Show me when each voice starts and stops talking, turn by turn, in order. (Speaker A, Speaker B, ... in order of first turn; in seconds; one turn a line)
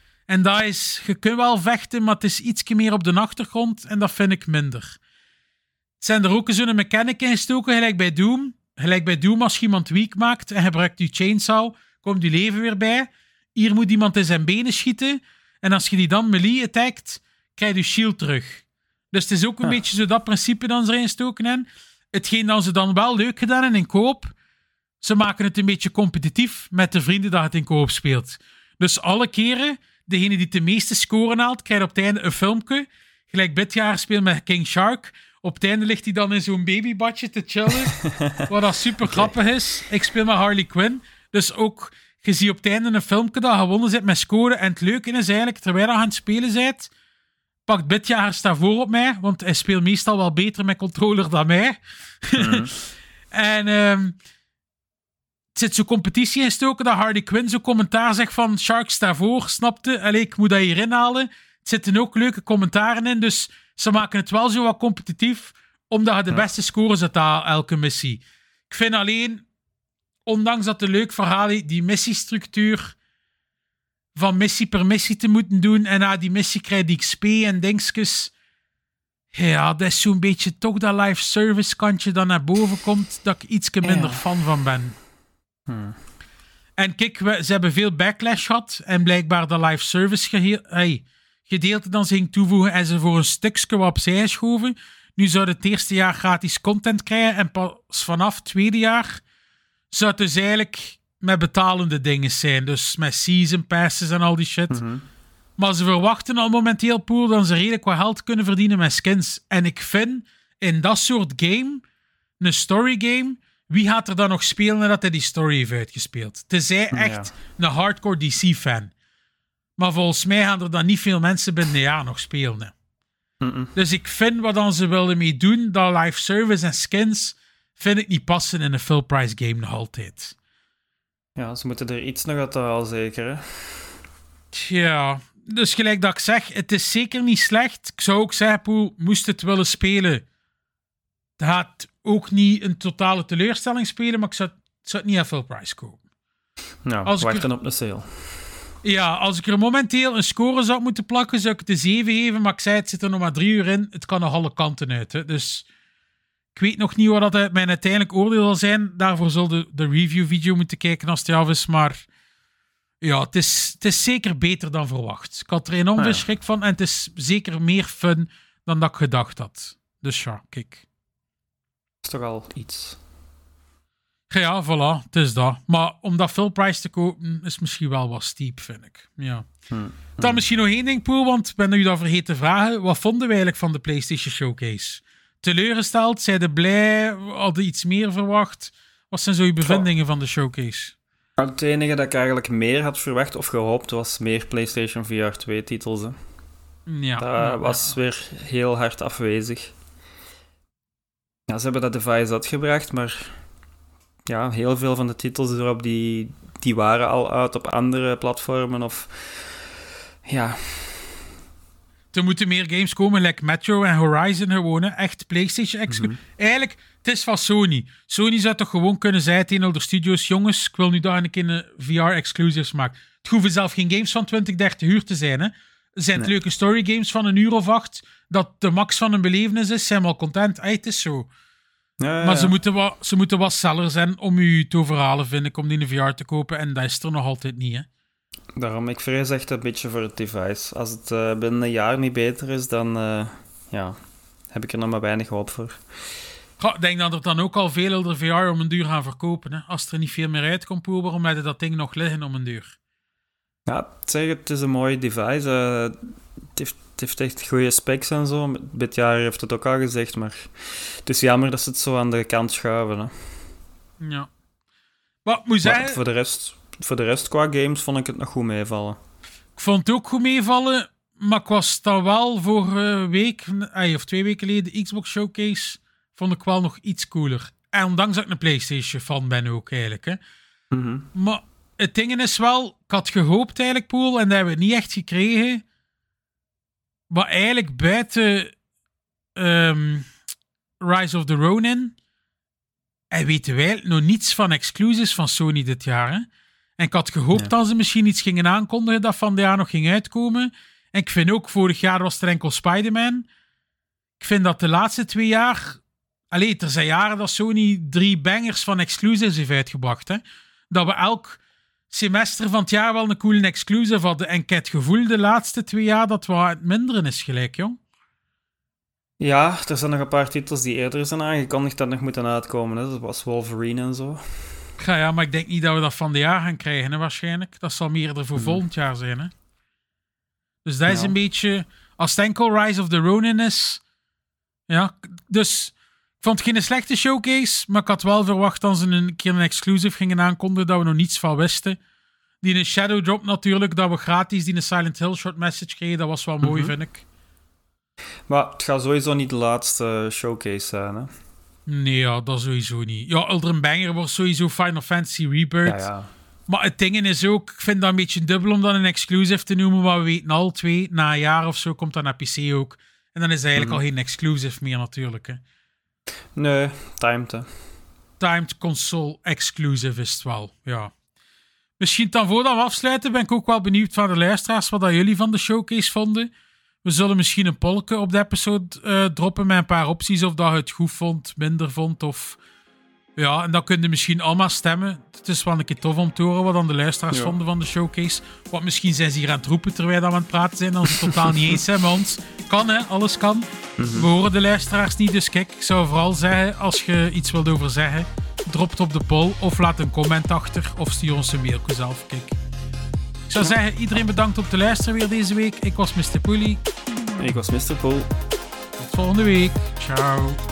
Speaker A: 0.3-5.0
Speaker A: 6.0-24.3
Speaker A: 25.0-46.9
Speaker B: 38.0-38.5
Speaker B: 39.0-39.3
Speaker A: 47.7-52.8
Speaker B: 52.4-52.7
Speaker A: 53.3-54.2
Speaker A: 55.5-69.5
Speaker A: 70.3-73.0
Speaker A: 74.2-78.3
Speaker A: 79.3-85.0
Speaker B: 83.8-84.2
Speaker B: 85.7-86.0
Speaker A: 86.8-99.2
Speaker A: 99.9-104.8
Speaker B: 104.7-105.0
Speaker A: 105.6-111.8
Speaker A: 112.4-118.9
Speaker B: 116.9-117.3
Speaker A: 119.8-122.7
Speaker B: 123.4-123.7
Speaker A: 123.8-130.3
Speaker B: 131.4-134.0
Speaker A: 134.5-140.2
Speaker A: 141.4-146.0
Speaker B: 146.9-148.5
Speaker A: 147.1-147.5
Speaker A: 148.8-155.7
Speaker A: 156.5-162.1
Speaker A: 163.0-170.8
Speaker B: 166.0-166.2
Speaker B: 172.0-173.0
Speaker A: 174.3-179.5
Speaker B: 179.7-180.4
Speaker A: 180.2-190.9
Speaker B: 191.4-196.2
Speaker A: 196.9-197.9
Speaker B: 197.2-199.8
Speaker B: 201.5-203.4
Speaker B: 204.2-209.7
Speaker B: 210.3-211.3
Speaker A: 212.1-231.3
Speaker B: 215.9-216.2
Speaker B: 232.0-232.6
Speaker A: 232.2-237.9
Speaker B: 238.6-244.0
Speaker B: 244.5-245.8
Speaker A: 246.6-252.8
Speaker B: 253.7-256.0
Speaker B: 256.5-263.4
Speaker A: 264.0-264.3
Speaker A: 265.2-266.0
Speaker B: 265.6-269.0
Speaker A: 269.6-280.2
Speaker B: 280.7-281.1
Speaker A: 281.1-285.6
Speaker A: 287.1-288.5
Speaker A: 289.4-290.1
Speaker A: 290.8-291.9
Speaker A: 293.1-296.3
Speaker A: 296.8-303.3
Speaker A: 304.2-317.8
Speaker B: 319.2-324.6
Speaker A: 324.8-329.3
Speaker B: 328.4-328.6
Speaker A: 330.6-333.8
Speaker B: 330.9-331.1
Speaker A: 334.7-341.8
Speaker A: 342.4-347.0
Speaker B: 346.4-346.7
Speaker B: 348.3-351.1
Speaker A: 351.7-355.9
Speaker B: 355.6-356.1
Speaker A: 356.5-365.4
Speaker B: 366.4-367.5
Speaker A: 368.2-370.9
Speaker A: 371.8-376.3
Speaker A: 376.8-382.4
Speaker A: 383.2-402.4
Speaker B: 387.1-387.4
Speaker B: 391.0-391.6
Speaker B: 393.8-394.1
Speaker A: 403.3-406.6
Speaker B: 407.2-408.1
Speaker A: 408.8-410.4